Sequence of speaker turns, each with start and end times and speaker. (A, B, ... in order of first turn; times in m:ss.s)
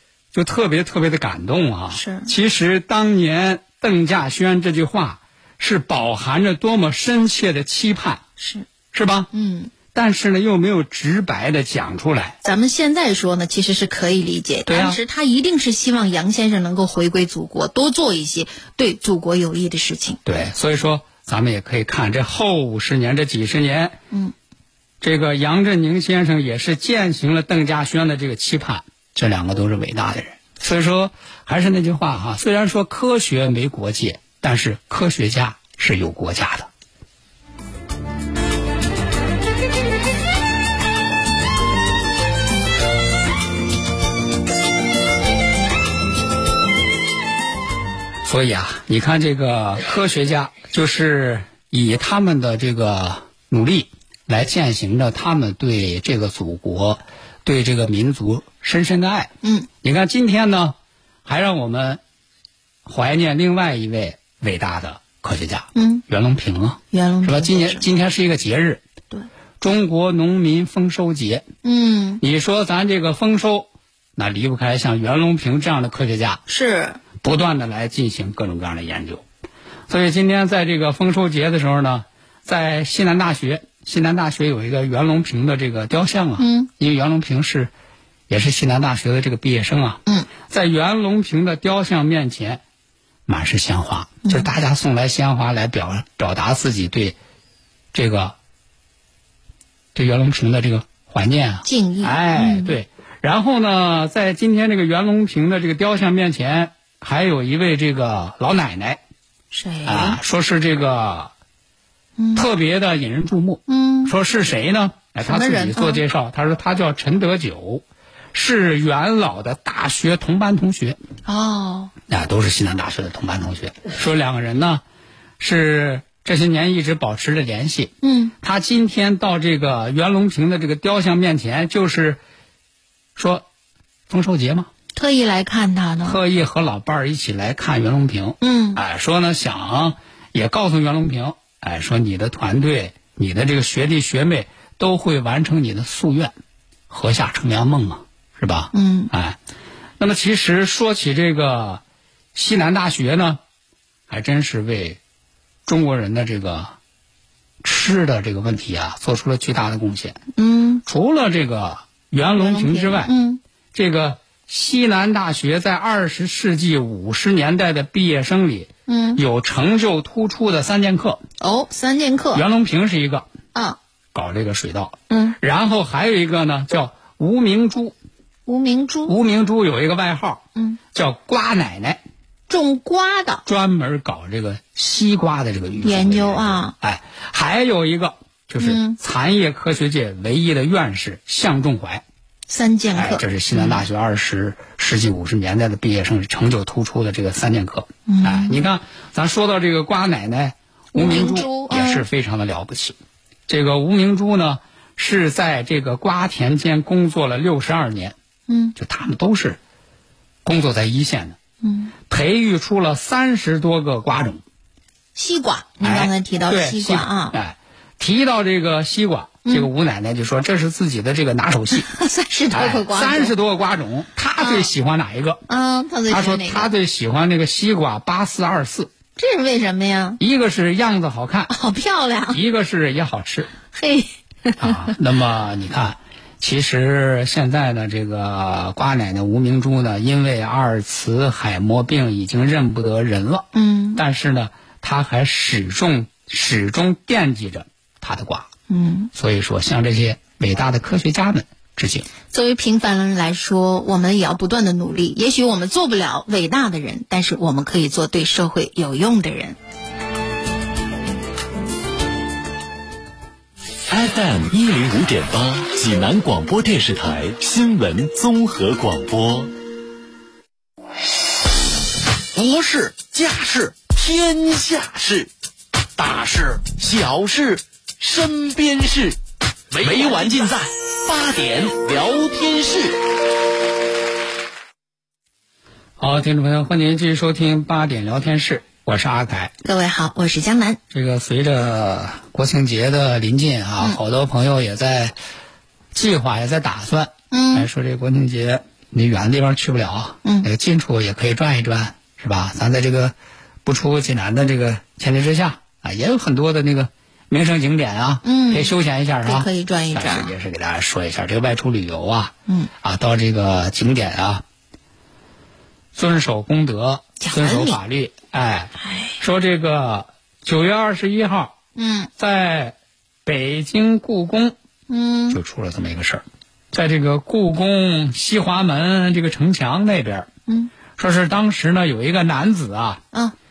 0:00.3-0:08.2 A
0:01.9-0:02.3 B
0:08.4-0:08.7 B
0:08.9-0:09.3 A
0:09.3-0:09.7 B
0:09.9-0:12.4 A
0:12.4-0:20.2 B
0:14.7-0:15.0 A
0:20.2-0:24.0 A
0:25.0-0:36.7 A
0:48.2-0:59.3 A
0:59.4-0:59.7 B
0:59.8-1:02.0 A
1:02.9-1:08.8 A
1:05.8-1:06.0 B
1:06.9-1:07.9 B
1:09.6-1:11.4 A
1:11.6-1:12.2 B
1:12.2-1:16.4 A
1:16.5-1:17.0 B
1:17.2-1:19.2 A
1:19.9-1:27.7 A
1:26.4-1:26.7 B
1:28.3-1:32.6 A
1:33.3-1:37.2 A
1:37.9-1:38.4 A
1:40.0-1:49.0 A
1:41.6-1:42.8 B
1:49.5-1:50.2 B
1:49.9-1:51.3 A
1:52.2-1:52.5 B
1:52.4-1:57.8 A
1:53.7-1:54.1 B
1:55.2-1:56.0 B
1:58.3-2:01.0 A
2:01.3-2:01.9 B
2:02.1-2:04.8 A
2:05.4-2:12.2 A
2:08.0-2:08.4 B
2:13.2-2:13.4 A
2:14.1-2:14.7 A
2:14.9-2:16.2 B
2:16.0-2:26.3 A
2:18.4-2:18.8 B
2:26.9-2:29.4 A
2:28.7-2:29.1 B
2:30.0-2:31.8 A
2:32.4-2:33.4 A
2:34.1-2:35.0 A
2:35.7-2:36.7 A
2:37.6-2:40.2 A
2:40.4-2:40.8 B
2:40.9-2:43.1 A
2:42.4-2:43.4 B
2:43.7-2:51.2 A
2:48.9-2:49.2 B
2:51.4-2:52.4 B
2:52.3-2:53.3 A
2:54.1-2:58.0 A
2:55.1-2:55.4 B
2:58.5-2:59.1 B
2:59.1-3:00.4 A
3:00.9-3:02.0 A
3:02.5-3:03.4 B
3:03.4-3:12.0 A
3:05.8-3:06.7 B
3:08.6-3:09.0 B
3:12.5-3:13.8 B
3:13.0-3:23.0 A
3:18.1-3:18.6 B
3:20.9-3:22.0 B
3:23.5-3:28.2 A
3:28.5-3:28.8 B
3:28.8-3:29.6 A
3:30.4-3:31.4 A
3:31.6-3:31.9 B
3:32.1-3:34.4 A
3:35.2-3:37.4 B
3:35.8-3:41.9 A
3:41.8-3:43.3 B
3:42.5-3:45.4 A
3:44.4-3:44.7 B
3:45.5-3:46.7 B
3:46.1-3:48.9 A
3:49.2-3:50.2 B
3:50.2-3:51.5 A
3:51.5-3:52.4 B
3:52.3-3:53.5 A
3:53.7-3:54.9 B
3:54.6-4:08.5 A
4:03.5-4:04.0 B
4:08.7-4:09.1 B
4:09.1-4:12.1 A
4:12.3-4:19.6 B
4:23.9-4:29.5 C
4:32.3-4:35.3 C
4:36.0-4:39.2 C
4:39.7-4:43.0 C
4:39.8-4:40.4 B
4:46.0-4:49.5 A
4:49.6-4:50.8 B
4:50.9-4:55.2 A
4:55.9-5:03.1 A
4:57.3-4:57.7 B
5:03.6-5:14.4 A
5:08.2-5:10.3 B
5:15.9-5:21.5 A
5:17.2-5:17.8 B
5:18.8-5:19.2 B
5:21.8-5:22.1 B
5:22.2-5:24.6 A
5:24.9-5:25.4 B
5:25.3-5:30.3 A
5:30.5-5:30.7 B
5:31.0-5:33.0 A